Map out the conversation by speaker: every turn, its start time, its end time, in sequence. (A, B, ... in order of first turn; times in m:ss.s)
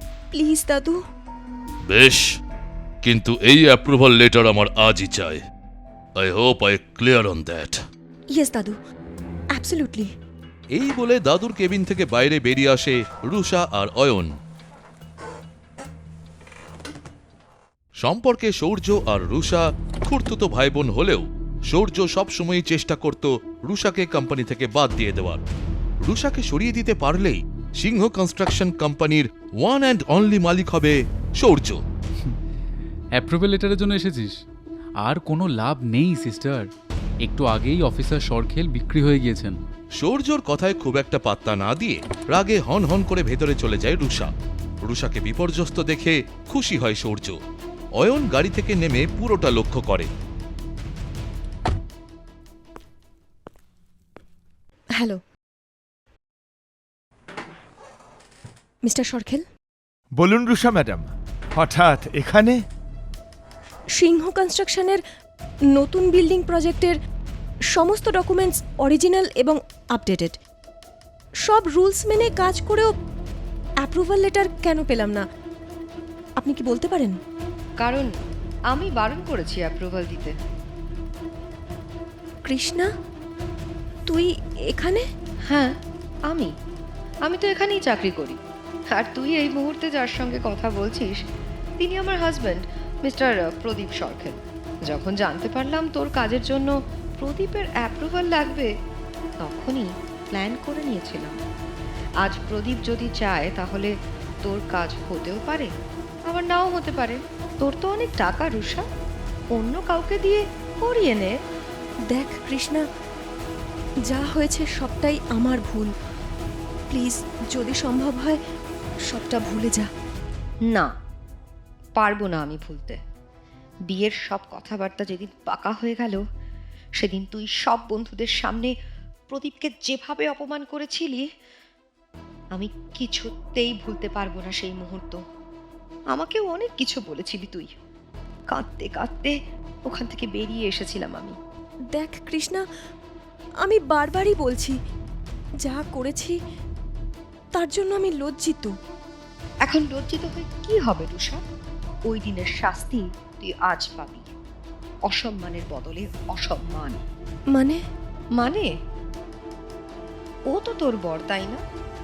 0:00.3-0:01.0 A
0:01.9-0:02.2 B
0:03.0-0:05.4 B
0:06.2-0:07.8 B
0:08.3-0:08.8 A
0:09.5-0:10.1 A
0:10.8-0:14.3 B
0:18.0-0:25.4 B
0:26.0-0:31.8 B
0:33.2-0:34.4 C
0:35.0-0:36.7 C
0:37.2-0:39.6 C
0:40.0-0:44.3 B
0:44.8-0:47.4 B
0:48.0-0:50.1 B
0:58.8-0:59.4 A
1:00.2-1:02.6 D
1:04.0-1:05.0 A
1:05.7-1:07.0 A
1:07.7-1:10.4 A
1:11.4-1:12.9 A
1:13.8-1:15.2 A
1:16.4-1:17.2 A
1:17.8-1:18.1 E
1:18.7-1:20.4 E
1:22.5-1:22.9 A
1:24.1-1:25.0 A
1:27.3-1:28.4 E
1:28.9-1:31.2 E
1:31.8-1:38.7 E
1:39.4-1:41.4 E
1:42.2-1:43.9 E
1:44.4-1:45.7 E
1:46.3-1:48.8 E
1:49.6-1:51.3 E
1:52.1-1:52.8 A
1:54.1-1:55.9 A
1:56.9-1:58.4 A
1:59.1-1:59.9 A
2:02.0-2:03.0 E
2:03.9-2:06.2 E
2:07.0-2:08.7 E
2:09.3-2:11.3 E
2:12.6-2:15.2 E
2:16.2-2:17.7 E
2:18.5-2:19.4 E
2:19.9-2:21.4 E
2:22.0-2:22.6 A
2:23.6-2:24.8 A
2:25.6-2:26.4 A
2:27.6-2:28.7 A
2:29.6-2:31.4 E
2:32.1-2:34.3 E
2:35.1-2:37.0 E
2:37.5-2:37.8 A
2:38.4-2:38.7 E
2:40.5-2:41.6 E